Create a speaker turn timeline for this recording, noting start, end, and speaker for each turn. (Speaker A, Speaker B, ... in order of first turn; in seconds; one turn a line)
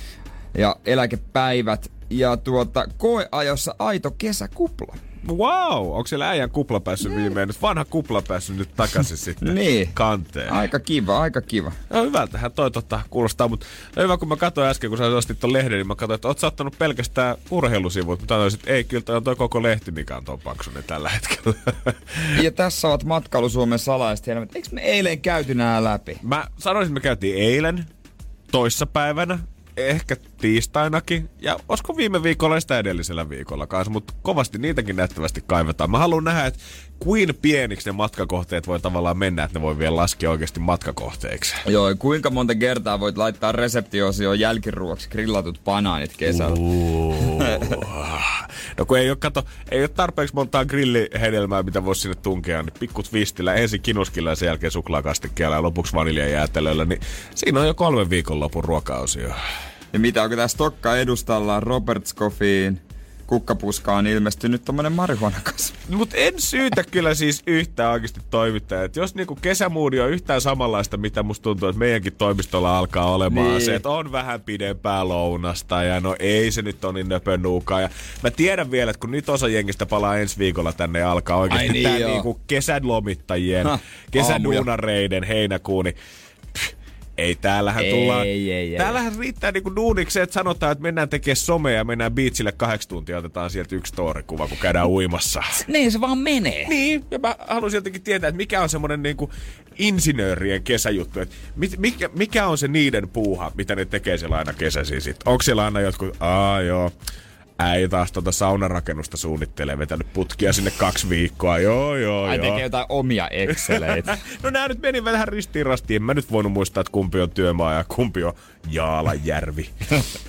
Speaker A: 0.6-5.0
Speaker B: 5.2-10.6
Speaker A: 9.4-10.0
Speaker A: 10.5-11.8
Speaker B: 11.9-22.4
Speaker A: 22.3-26.2
Speaker B: 26.2-27.9
Speaker B: 28.5-41.6
Speaker A: 41.6-46.6
Speaker B: 46.3-59.4
Speaker A: 47.3-47.7
Speaker A: 59.9-65.8
Speaker B: 65.9-86.0
Speaker A: 73.3-73.8
Speaker A: 81.5-82.3
Speaker A: 83.6-84.7
Speaker B: 86.5-95.6
Speaker A: 87.8-89.0
Speaker A: 95.6-96.7
Speaker B: 96.7-106.9
Speaker B: 107.6-112.6
Speaker A: 112.2-114.2
Speaker B: 113.5-119.7